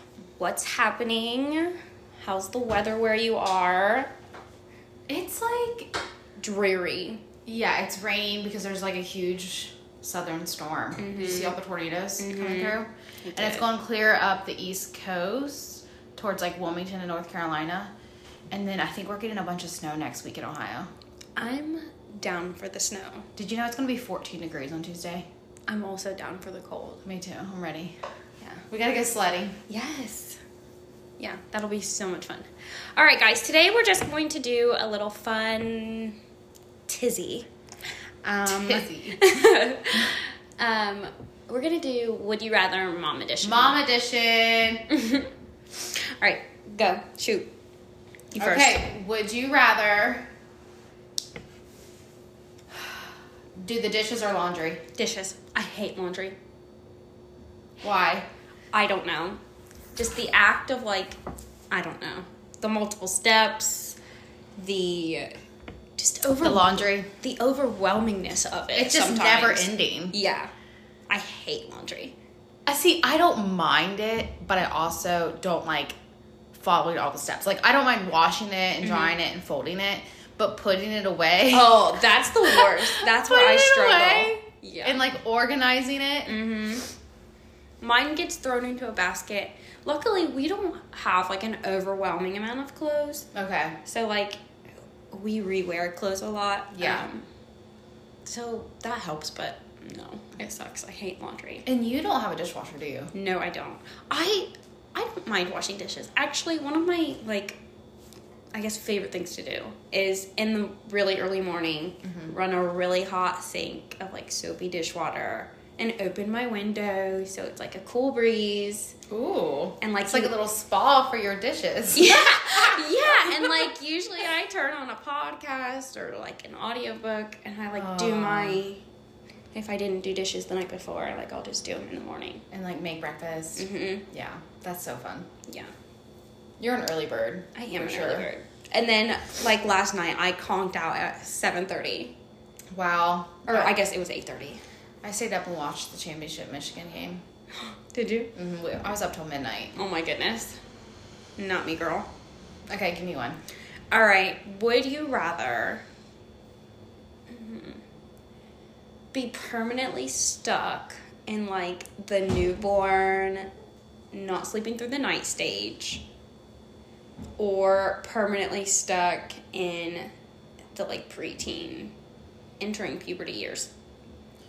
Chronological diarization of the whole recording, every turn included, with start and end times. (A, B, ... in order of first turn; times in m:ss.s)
0:00.4-0:04.1 A
0:05.1-0:05.9 B
0:06.4-0:07.2 A
0:07.5-0:17.9 B
0:11.0-0:11.6 A
0:12.2-0:13.7 A
0:18.5-0:20.9 B
0:21.4-0:23.3 A
0:23.4-0:25.3 B
0:25.7-0:27.0 A
0:27.0-0:28.0 B
0:28.7-0:29.6 B
0:29.7-0:30.4 A
0:31.2-0:36.2 A
0:36.9-0:37.5 A
0:38.2-0:43.8 A
0:38.4-0:39.2 B
0:43.4-0:44.9 B
0:44.9-0:47.5 A
0:48.3-0:48.9 A
0:48.4-0:50.3 B
0:53.6-0:54.8 B
0:54.9-0:56.4 A
0:57.8-0:58.3 B
0:58.7-0:59.4 A
1:00.0-1:01.2 A
1:01.7-1:04.0 A
1:04.6-1:05.3 A
1:06.0-1:10.5 A
1:06.4-1:07.1 B
1:08.7-1:10.2 B
1:11.1-1:12.1 A
1:12.7-1:16.0 B
1:16.6-1:26.4 B
1:18.8-1:19.2 A
1:21.5-1:25.1 A
1:26.2-1:26.9 A
1:27.8-1:33.3 A
1:33.3-1:33.8 B
1:33.8-1:34.4 A
1:35.1-1:37.2 A
1:36.7-1:37.0 B
1:38.2-1:41.7 A
1:41.7-1:43.1 B
1:43.1-1:47.6 A
1:48.5-1:58.9 A
1:52.0-1:52.3 B
1:59.1-2:03.7 B
1:59.8-2:00.3 A
2:01.9-2:08.8 A
2:07.7-2:08.6 B
2:09.5-2:12.4 A
2:12.5-2:15.3 B
2:13.6-2:14.0 A
2:15.4-2:15.7 A
2:16.6-2:18.3 B
2:17.5-2:22.2 A
2:22.7-2:23.8 B
2:23.5-2:24.6 A
2:25.0-2:27.2 B
2:27.6-2:28.3 A
2:28.3-2:29.8 B
2:29.8-2:30.6 A
2:31.4-2:32.1 A
2:32.7-2:33.4 B
2:33.9-2:35.8 A
2:37.3-2:37.8 A
2:39.1-2:43.5 A
2:44.1-2:46.0 A
2:47.4-2:50.1 A
2:50.8-2:51.9 A
2:52.6-2:53.7 A